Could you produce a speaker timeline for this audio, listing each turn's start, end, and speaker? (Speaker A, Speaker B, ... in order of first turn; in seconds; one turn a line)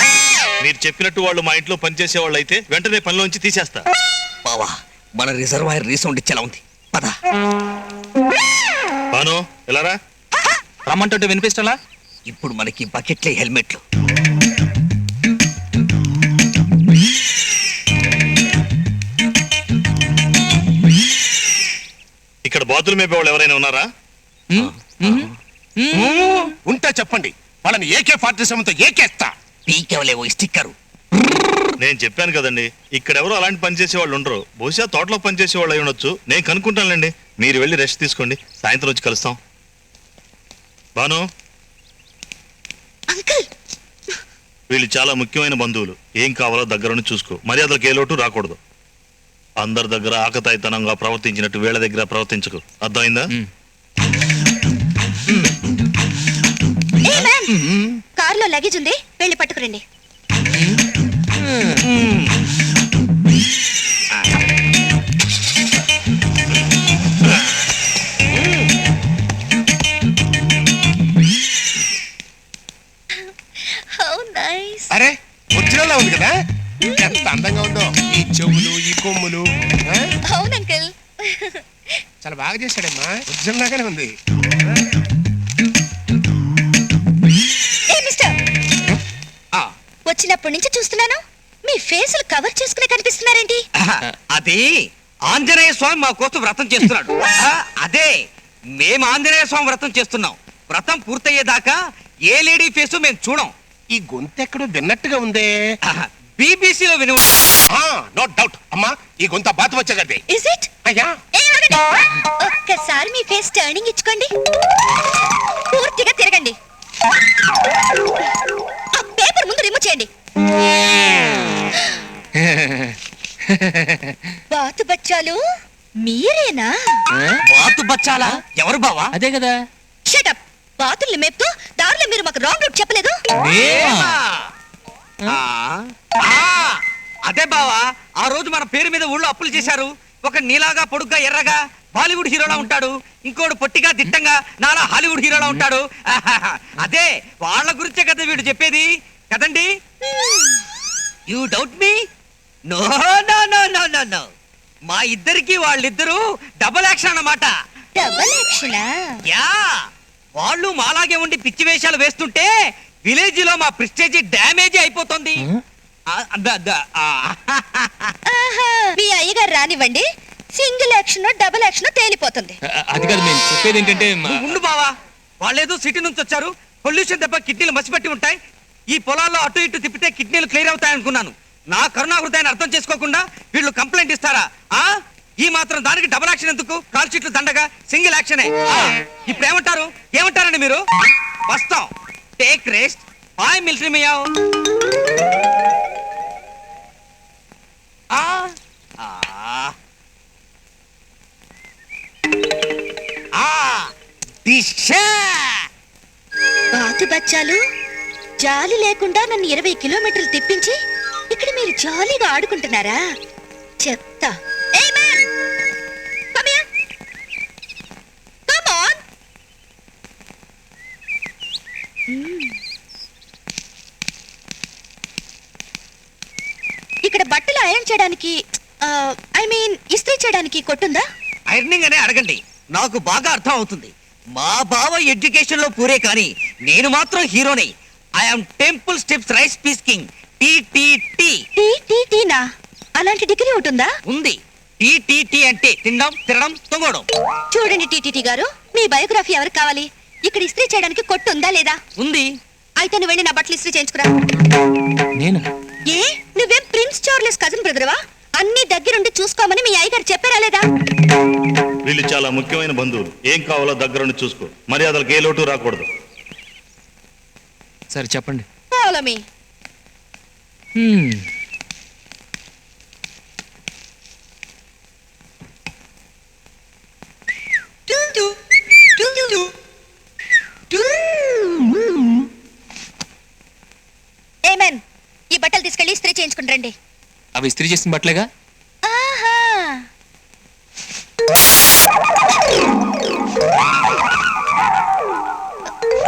Speaker A: 0.6-3.9
Speaker B: 4.5-7.1
Speaker A: 9.1-10.0
Speaker B: 12.3-13.8
Speaker A: 22.4-23.9
Speaker C: 24.5-26.4
Speaker B: 25.9-26.5
Speaker D: 26.6-29.3
Speaker B: 29.7-30.7
Speaker A: 31.8-39.4
Speaker A: 41.0-41.3
Speaker E: 43.1-43.5
Speaker A: 44.7-48.6
Speaker A: 49.6-53.3
Speaker E: 57.0-57.5
Speaker E: 58.2-59.8
Speaker C: 61.5-61.8
Speaker B: 61.8-62.3
Speaker E: 73.2-74.9
Speaker D: 74.9-76.3
Speaker E: 76.8-77.2
Speaker D: 77.0-80.1
Speaker E: 80.3-81.6
Speaker D: 82.2-84.1
Speaker E: 87.9-88.3
Speaker E: 90.1-93.6
Speaker B: 93.8-94.7
Speaker B: 95.3-98.1
Speaker B: 98.8-101.8
Speaker B: 102.3-103.5
Speaker D: 103.9-105.5
Speaker B: 105.9-107.4
Speaker D: 107.7-110.2
Speaker E: 110.3-110.7
Speaker D: 110.8-111.1
Speaker E: 111.4-114.3
Speaker E: 115.7-116.6
Speaker E: 119.0-120.1
Speaker C: 122.4-123.0
Speaker C: 123.5-124.3
Speaker E: 124.5-125.4
Speaker E: 126.0-127.0
Speaker C: 127.1-127.4
Speaker B: 127.5-129.2
Speaker C: 129.1-129.6
Speaker E: 130.1-133.2
Speaker C: 133.4-134.1
Speaker B: 133.6-134.5
Speaker B: 135.3-149.7
Speaker C: 145.4-145.6
Speaker E: 150.0-150.6
Speaker B: 151.3-152.0
Speaker B: 152.7-154.3
Speaker B: 154.9-157.6
Speaker E: 157.9-158.9
Speaker B: 159.3-159.8
Speaker B: 160.4-162.5
Speaker B: 163.1-165.4
Speaker B: 166.1-168.1
Speaker E: 168.3-172.6
Speaker C: 172.7-174.5
Speaker B: 174.2-178.4
Speaker B: 178.9-190.8
Speaker B: 191.5-194.3
Speaker B: 198.1-199.7
Speaker B: 203.4-203.9
Speaker B: 204.4-205.6
Speaker E: 206.7-207.6
Speaker E: 208.4-210.8
Speaker E: 211.3-213.0
Speaker E: 213.8-215.2
Speaker E: 216.3-216.7
Speaker E: 218.5-219.0
Speaker E: 222.1-222.6
Speaker E: 227.0-231.0
Speaker B: 231.5-241.4
Speaker E: 241.6-242.4
Speaker E: 243.0-243.9
Speaker B: 244.1-247.1
Speaker E: 247.5-251.8
Speaker B: 252.0-252.3
Speaker E: 252.8-254.1
Speaker C: 255.2-255.4
Speaker E: 255.9-260.6
Speaker A: 261.9-265.9
Speaker C: 267.9-268.5
Speaker E: 268.7-269.2
Speaker C: 270.8-271.3
Speaker E: 277.9-278.4
Speaker E: 278.9-279.5
Speaker E: 280.7-281.1
Speaker E: 284.4-286.7
Speaker C: 287.4-288.3
Speaker E: 288.9-289.8